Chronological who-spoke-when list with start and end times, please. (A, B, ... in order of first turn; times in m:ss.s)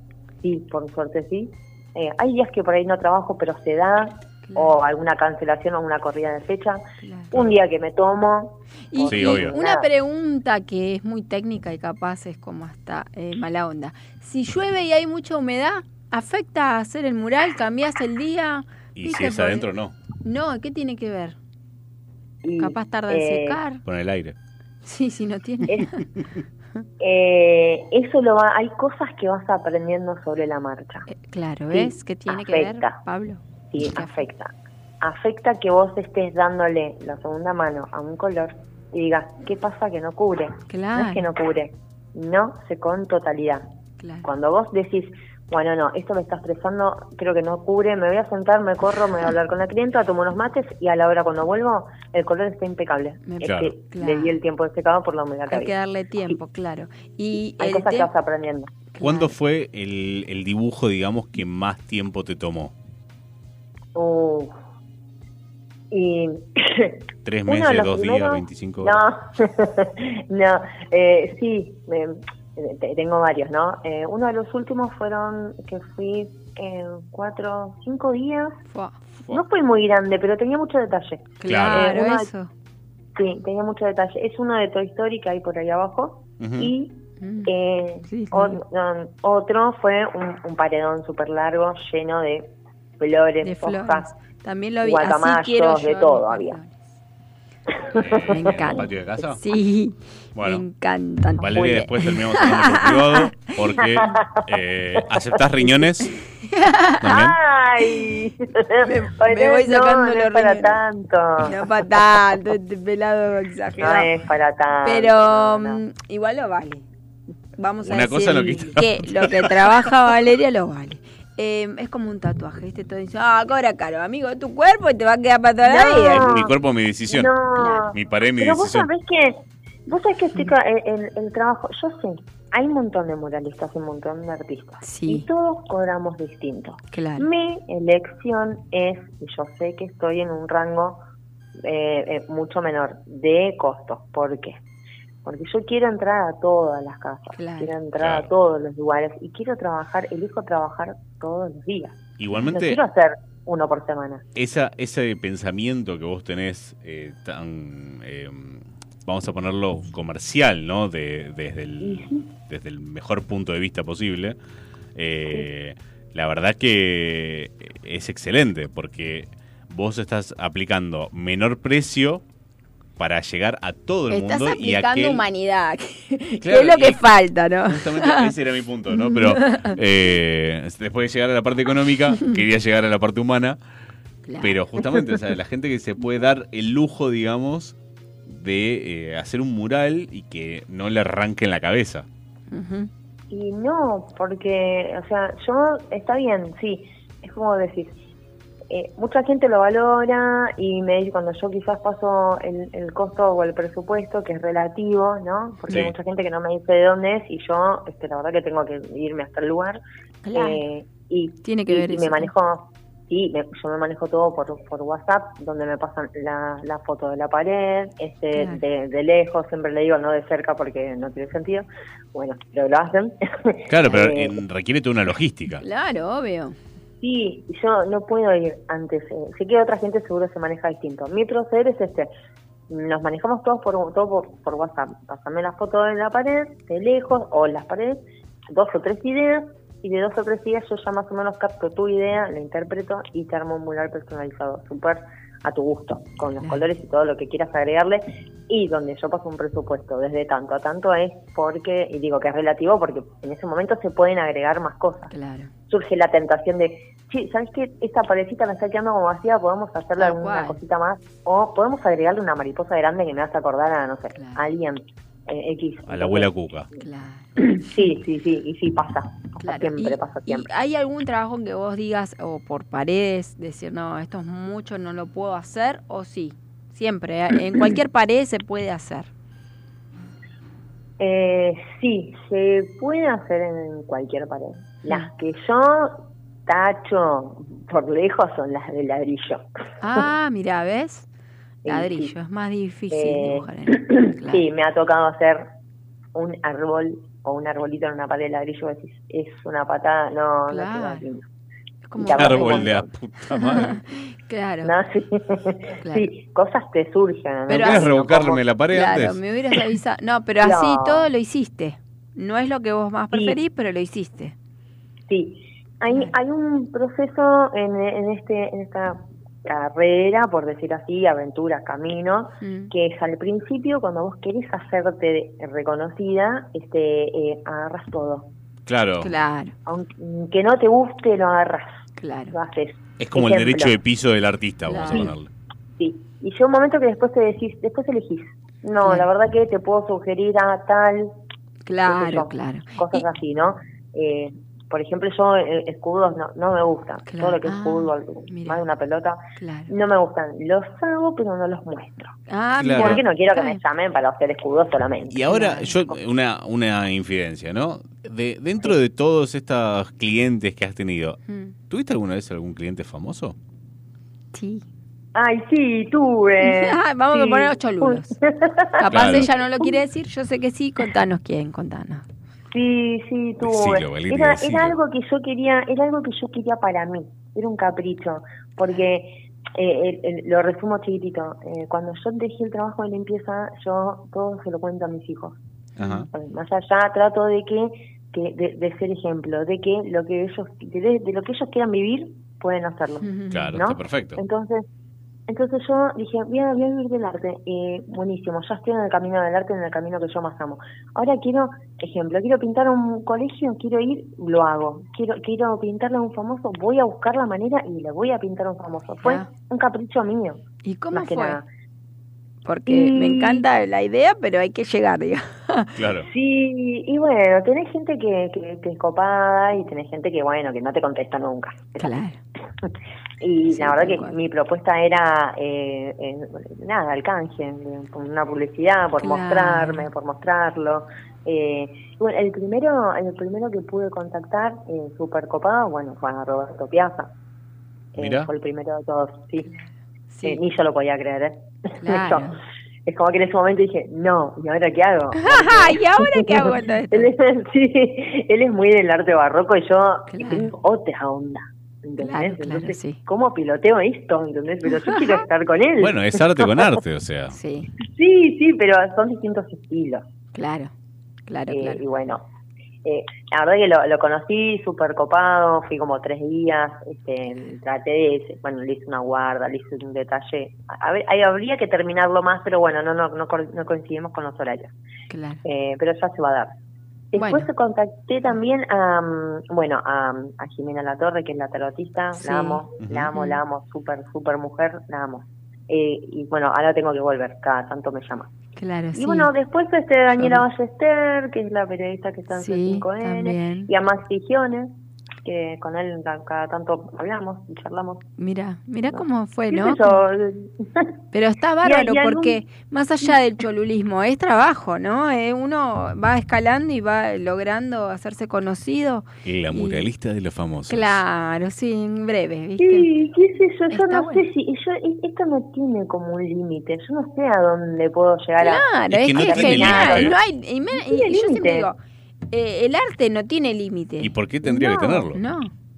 0:00.4-0:09.9 A
0:04.5-0:04.8 B
0:07.0-0:07.3 B
0:08.9-0:19.7 B
0:09.1-0:09.6 C
0:19.0-0:20.0 C
0:20.2-0:21.4 B
0:22.4-0:23.6 A
0:22.6-0:23.8 B
0:23.8-0:24.4 C
0:24.8-0:26.1 B
0:27.0-0:31.1 A
0:31.1-0:34.3 B
0:31.7-0:33.0 A
0:33.7-0:43.6 A
0:40.7-0:41.3 B
0:44.0-0:44.3 B
0:44.2-0:55.7 A
0:53.2-0:54.4 B
0:53.4-0:53.7 C
0:55.5-0:58.1 B
0:57.6-0:58.7 A
0:58.9-0:59.3 B
0:59.0-1:02.7 C
1:04.0-1:04.5 A
1:05.9-1:18.6 A
1:07.3-1:09.0 C
1:18.7-1:19.1 B
1:19.3-1:22.3 A
1:21.4-1:22.5 B
1:21.5-1:21.9 C
1:23.2-1:34.1 A
1:26.4-1:26.7 C
1:27.2-1:27.5 B
1:28.1-1:28.6 B
1:33.4-1:36.8 B
1:34.8-1:36.6 A
1:37.9-1:38.5 A
1:38.0-1:39.4 C
1:38.3-1:43.2 B
1:40.4-1:40.6 C
1:41.4-1:46.1 C
1:41.4-1:41.8 A
1:43.8-1:44.4 A
1:46.5-1:47.2 B
1:47.0-1:47.4 C
1:47.1-1:51.6 A
1:48.8-1:50.8 B
1:51.4-1:54.1 B
1:53.8-1:55.8 A
1:54.8-1:56.8 B
1:57.6-2:06.3 B
1:57.8-1:59.5 C
2:05.6-2:06.6 A
2:06.1-2:07.4 C
2:07.1-2:21.0 A
2:07.6-2:07.9 B
2:07.9-2:08.9 C
2:14.8-2:15.3 B
2:16.9-2:17.3 B
2:21.6-2:24.6 A
2:25.2-2:34.2 A
2:27.4-2:27.8 B
2:28.0-2:28.3 C
2:32.2-2:32.8 C
2:34.4-2:44.4 C
2:41.8-2:42.3 A
2:45.0-2:52.2 C
2:53.0-2:55.2 C
2:54.1-2:58.3 B
2:56.4-2:57.1 C
2:57.6-3:03.6 C
2:59.0-2:59.8 B
3:04.3-3:04.6 B
3:04.4-3:07.8 C
3:08.3-3:12.1 C
3:12.5-3:12.9 B
3:13.3-3:18.0 A
3:18.7-3:29.8 A
3:25.7-3:26.0 C
3:30.2-3:30.6 B
3:30.3-3:44.4 A
3:31.4-3:32.3 B
3:38.3-3:38.6 B
3:43.7-3:45.6 C
3:45.6-3:46.6 B
3:47.0-3:52.1 A
3:52.7-4:15.1 A
4:15.1-4:15.5 B
4:15.7-4:26.8 A
4:20.0-4:20.6 B
4:24.2-4:24.5 B
4:25.9-4:26.7 C
4:26.8-4:27.4 B
4:27.4-4:30.5 A
4:29.4-4:39.1 B
4:41.0-4:49.4 A
4:49.8-4:51.1 B
4:51.6-4:52.1 A
4:51.6-4:54.5 B
4:52.9-4:55.5 A
4:56.2-5:01.2 A
5:00.5-5:01.1 B
5:01.9-5:02.7 B
5:02.0-5:02.9 A
5:02.2-5:03.8 C
5:03.3-5:04.7 B
5:04.6-5:08.4 A
5:05.8-5:06.1 B
5:07.5-5:07.9 B
5:07.5-5:09.2 C
5:08.7-5:14.4 B
5:10.4-5:11.1 A
5:13.1-5:13.4 A
5:15.1-5:28.3 A
5:22.4-5:22.7 B
5:28.7-5:29.1 C
5:29.0-5:29.6 B
5:29.7-5:31.7 A
5:32.0-5:32.4 B
5:32.3-5:33.8 A
5:33.0-5:35.3 C
5:34.7-5:35.1 B
5:35.8-5:41.1 A
5:38.8-5:39.1 B
5:41.7-5:43.0 B
5:41.8-5:52.1 A
5:47.1-5:48.7 B
5:49.4-5:49.7 B
5:52.3-5:53.6 B
5:52.6-5:53.0 C
5:52.7-5:55.4 A
5:55.1-6:01.2 C
5:55.3-5:55.7 B
6:01.3-6:01.5 B
6:01.7-6:03.4 C
6:04.3-6:04.6 B
6:05.2-6:09.8 A
6:06.4-6:08.2 B
6:08.8-6:12.0 B
6:08.9-6:09.3 C
6:12.5-6:25.4 A
6:13.4-6:14.8 C
6:25.8-6:26.1 C
6:26.1-6:34.7 A
6:33.0-6:33.6 B
6:33.3-6:34.2 C
6:35.3-6:51.5 A
6:49.0-6:49.3 B
6:50.6-6:51.4 B
6:52.4-6:55.8 B
6:52.7-6:53.4 A
6:55.8-6:56.1 C
6:56.0-7:01.9 A
7:01.8-7:02.2 B
7:03.2-7:17.1 A
7:03.5-7:04.2 B
7:09.0-7:09.9 B
7:17.9-7:19.5 A
7:18.0-7:18.3 C
7:19.5-7:20.4 B
7:20.2-7:22.3 A
7:21.8-7:22.4 B
7:22.9-7:36.4 A
7:25.1-7:27.1 B
7:30.1-7:30.5 B
7:32.0-7:33.0 B
7:34.7-7:35.2 B
7:35.8-7:37.3 C
7:37.3-7:37.7 B
7:37.8-7:40.0 A
7:40.4-7:40.7 B
7:41.3-7:41.8 B
7:41.5-7:42.2 A
7:42.8-7:54.7 A
7:55.1-7:55.4 B
7:55.4-7:56.6 A
7:57.1-8:08.3 A
7:57.2-7:57.5 B
8:02.2-8:03.4 B
8:02.8-8:03.1 C
8:08.6-8:09.3 B
8:09.0-8:18.0 A
8:10.2-8:10.4 B
8:12.3-8:13.7 B
8:18.2-8:20.0 B
8:18.9-8:20.9 A
8:21.1-8:29.9 B
8:21.6-8:22.4 A
8:29.2-8:31.0 C
8:30.7-8:32.9 B
8:32.6-8:40.2 A
8:33.7-8:34.3 B
8:38.4-8:41.8 B
8:38.9-8:40.2 C
8:40.7-8:41.7 A
8:42.3-8:45.5 B
8:44.0-8:45.2 C